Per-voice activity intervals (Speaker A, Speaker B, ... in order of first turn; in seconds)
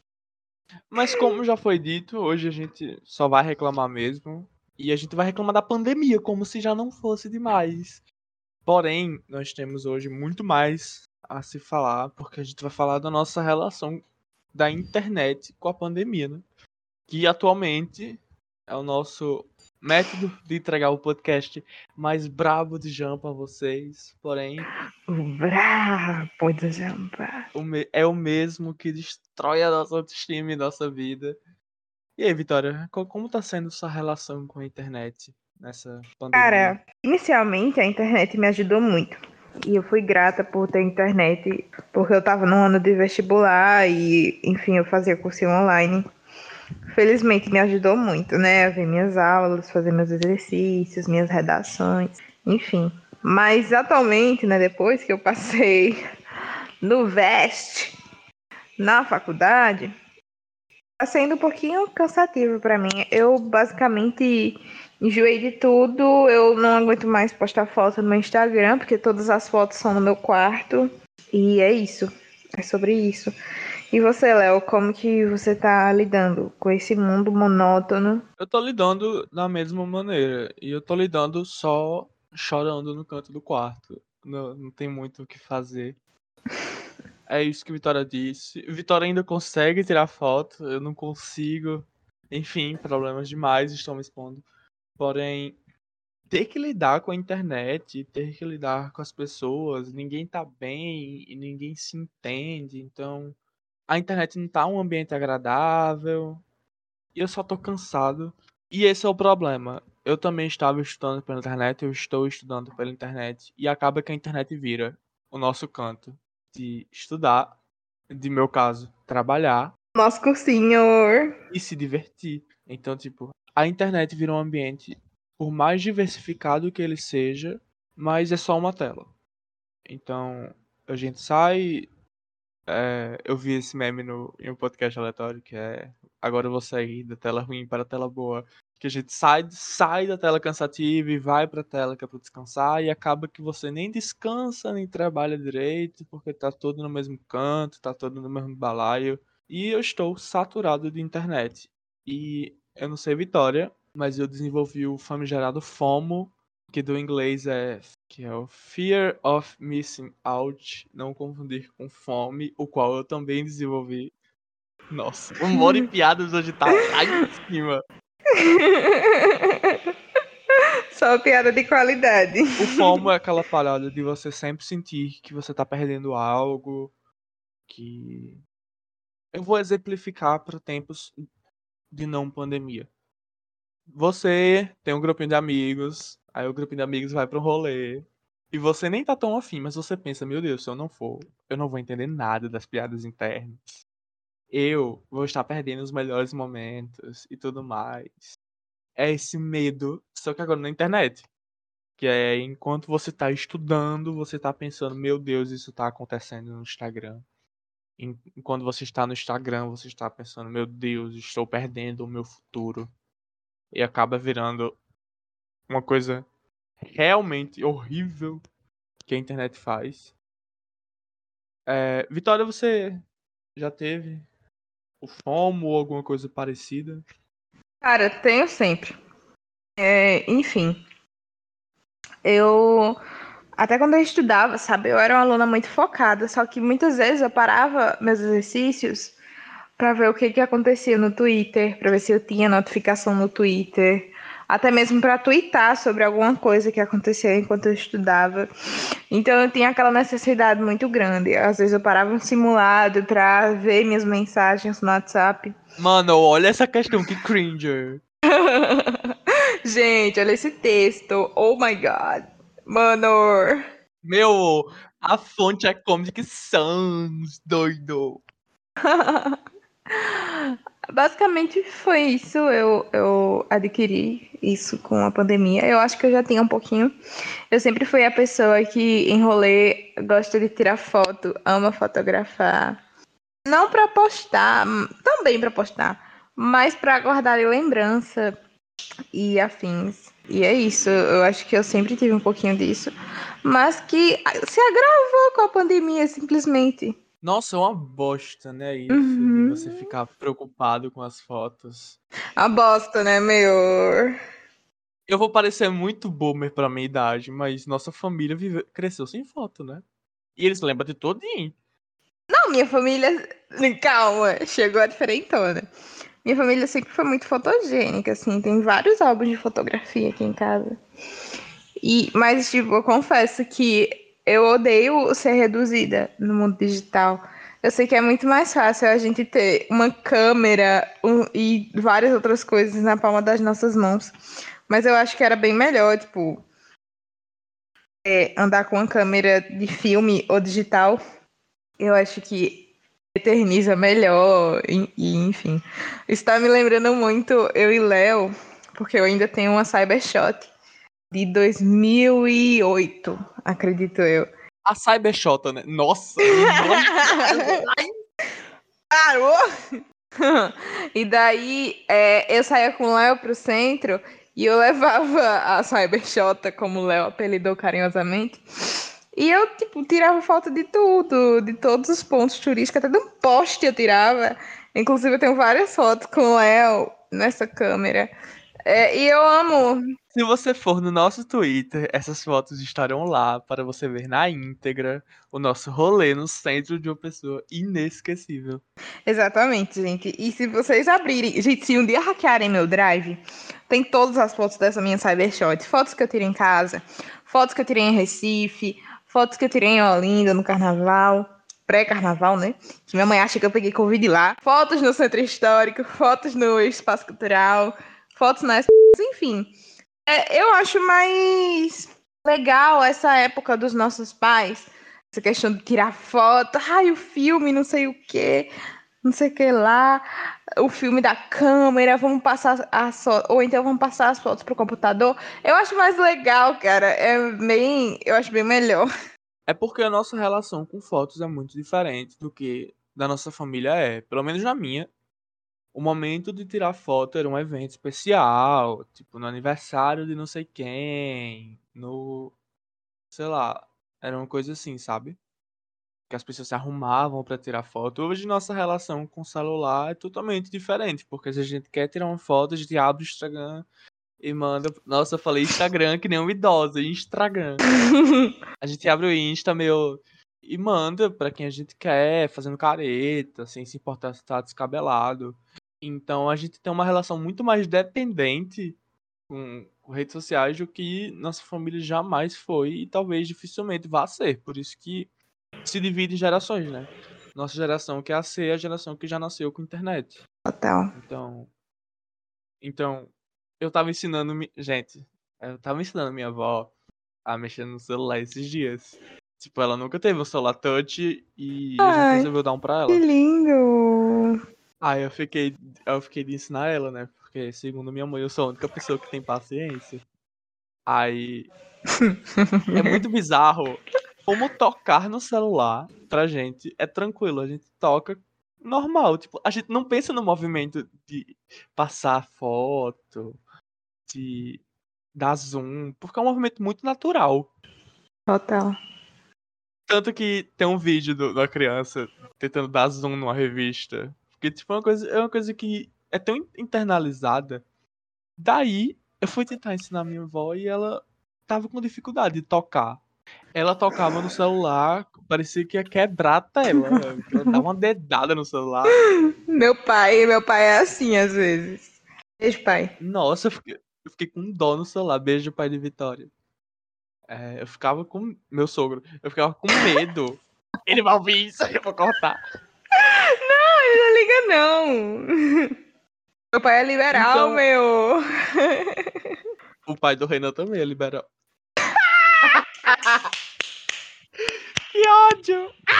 Speaker A: 0.9-8.0, 8.6-14.0, 14.5-16.4, 17.1-24.7, 27.5-31.4, 32.2-36.7, 78.4-86.0, 87.3-94.4, 95.0-95.6, 96.3-103.3, 103.9-106.4, 107.1-117.5, 118.1-119.7, 121.5-129.1, 129.9-131.9, 132.7-164.1, 164.9-167.8, 172.6-176.9, 177.7-178.4, 179.3-181.2, 181.9-182.9, 183.9-193.8, 194.5-198.3, 198.9-201.2, 202.0-207.2, 208.0-212.9, 213.7-214.7, 215.7-216.2, 216.8-218.4, 219.1-220.1, 221.7-223.0, 223.6-224.2, 225.0-227.0, 255.8-258.0, 264.0-268.2, 297.2-302.0, 305.1-309.8, 310.4-311.5, 354.6-357.9, 380.1-388.6, 429.5-434.9, 435.7-442.3, 443.1-445.2, 446.1-453.6, 454.2-457.6, 458.6-468.8, 469.3-475.1, 475.6-480.2, 480.9-481.5, 482.6-486.7, 487.2-493.0, 494.8-500.0, 500.9-501.5, 502.7-513.4, 514.1-514.6, 515.1-517.5, 519.9-527.6, 528.4-533.0, 533.5-539.0, 543.0-546.3, 547.3-552.4, 557.1-557.6, 559.9-561.2, 562.5-563.2, 564.9-565.7
Speaker B: 25.1-27.4, 36.3-46.0, 46.9-56.0, 56.8-57.9, 58.8-59.9, 61.0-73.3, 73.9-78.2, 119.9-121.3, 165.5-165.8, 168.3-169.8, 170.9-172.9, 227.8-229.0, 229.8-230.8, 232.2-233.0, 233.6-239.2, 239.8-248.5, 249.1-255.5, 258.3-263.6, 268.8-269.4, 269.9-276.9, 277.5-282.8, 283.4-288.3, 289.1-296.9, 298.9-299.9, 302.4-304.2, 312.3-315.7, 316.2-320.8, 321.8-334.1, 334.7-336.4, 338.0-341.0, 341.8-342.6, 343.1-350.5, 351.1-354.3, 356.3-357.6, 358.9-359.4, 360.2-368.4, 369.1-378.1, 378.6-379.8, 389.1-409.5, 410.1-418.5, 419.0-420.0, 420.6-428.9, 457.7-458.3, 480.5-480.9, 491.8-492.3, 492.9-494.4, 502.0-503.0, 518.3-518.8, 536.7-537.6, 539.1-542.9, 553.0-555.7, 556.5-559.3, 561.9-562.5